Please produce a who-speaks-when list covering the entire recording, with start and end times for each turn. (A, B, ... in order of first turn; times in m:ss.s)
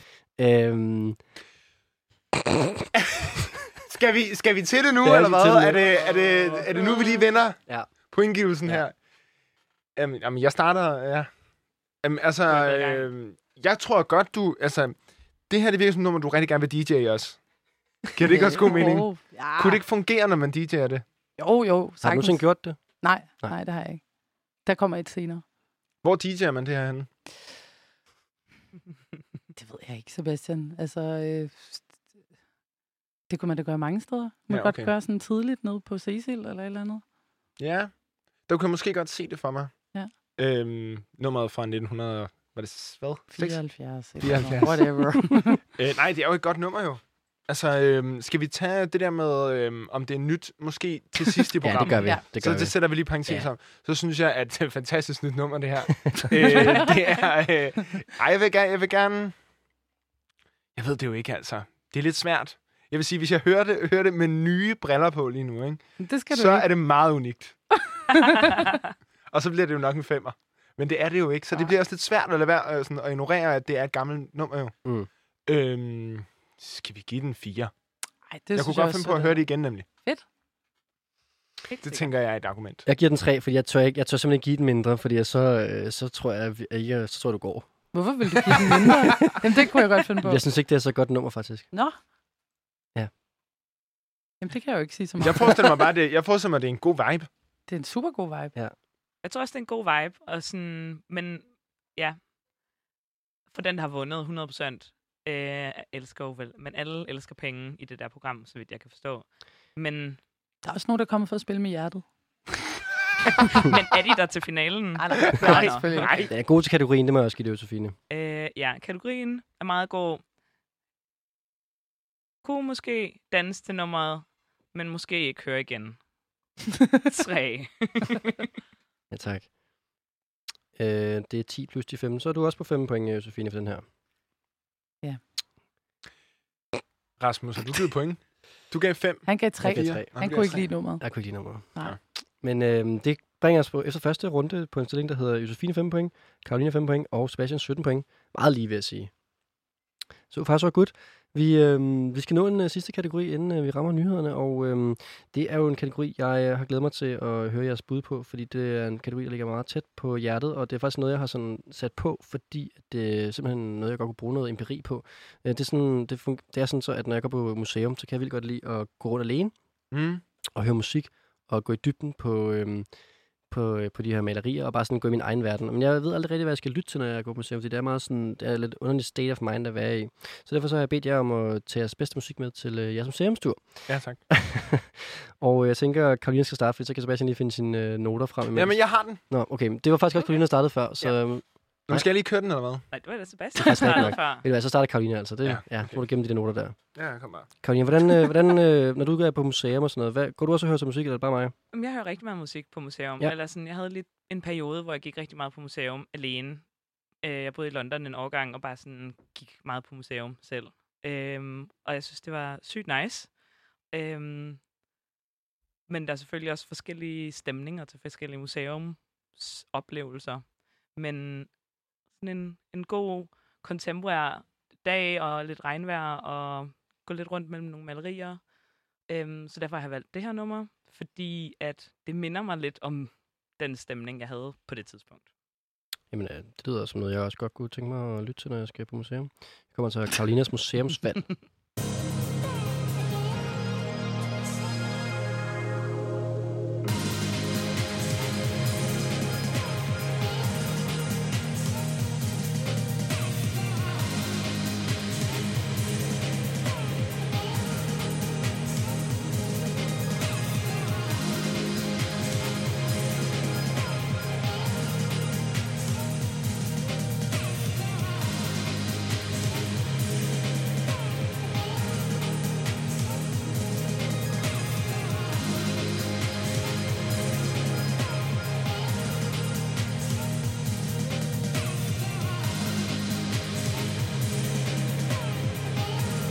0:00.4-0:01.2 A
0:03.0-0:08.9 B
0:05.0-0:06.0 A
0:10.0-0:11.3 B
0:12.0-0:15.0 B
0:12.5-0:13.1 C
0:15.5-0:17.4 B
0:18.1-0:21.0 B
0:18.3-0:19.8 D
0:21.4-0:22.4 D
0:22.0-0:22.8 A
0:23.0-0:24.0 D
0:24.6-0:25.4 D
0:26.0-0:27.1 B
0:29.6-0:31.8 D
0:33.3-0:37.0 D
0:34.5-0:34.9 B
0:37.6-0:37.9 B
0:38.5-0:39.8 B
0:40.4-0:43.7 B
0:43.3-0:45.6 D
0:44.2-0:45.2 B
0:45.7-0:59.3 B
0:51.6-0:53.5 A
0:56.1-0:56.8 A
0:56.5-0:56.9 D
1:00.7-1:07.6 B
1:06.0-1:06.7 D
1:07.9-1:08.7 D
1:09.3-1:14.7 B
1:15.5-1:17.7 B
1:18.3-1:20.2 D
1:18.5-1:19.8 B
1:21.7-1:22.1 C
1:21.8-1:22.8 B
1:22.8-1:27.7 A
1:27.9-1:30.4 D
1:28.3-1:29.5 A
1:30.2-1:31.6 A
1:34.4-1:35.7 D
1:35.2-1:37.3 B
1:37.7-1:38.5 D
1:39.2-1:42.2 C
1:43.5-1:50.2 C
1:50.6-1:52.0 D
1:53.4-1:56.3 C
1:55.0-1:56.2 D
1:56.3-1:58.0 A
1:58.1-2:00.2 C
2:02.4-2:06.0 C
2:07.0-2:08.4 C
2:09.1-2:09.5 A
2:10.8-2:13.8 A
2:17.2-2:20.7 B
2:19.2-2:21.0 D
2:19.6-2:21.7 A
2:22.4-2:29.1 A
2:30.3-2:49.5 A
2:49.9-2:50.2 B
2:50.5-2:52.9 A
2:53.5-3:12.0 A
3:03.9-3:04.2 B
3:08.5-3:09.2 B
3:11.9-3:12.8 B
3:12.9-3:14.4 C
3:13.6-3:16.8 A
3:15.4-3:16.0 B
3:16.9-3:17.5 B
3:17.6-3:21.5 A
3:21.7-3:26.6 C
3:27.2-3:33.3 C
3:33.9-3:34.6 C
3:35.9-3:41.5 C
3:42.2-3:48.4 C
3:49.1-3:55.2 C
3:56.1-4:01.4 A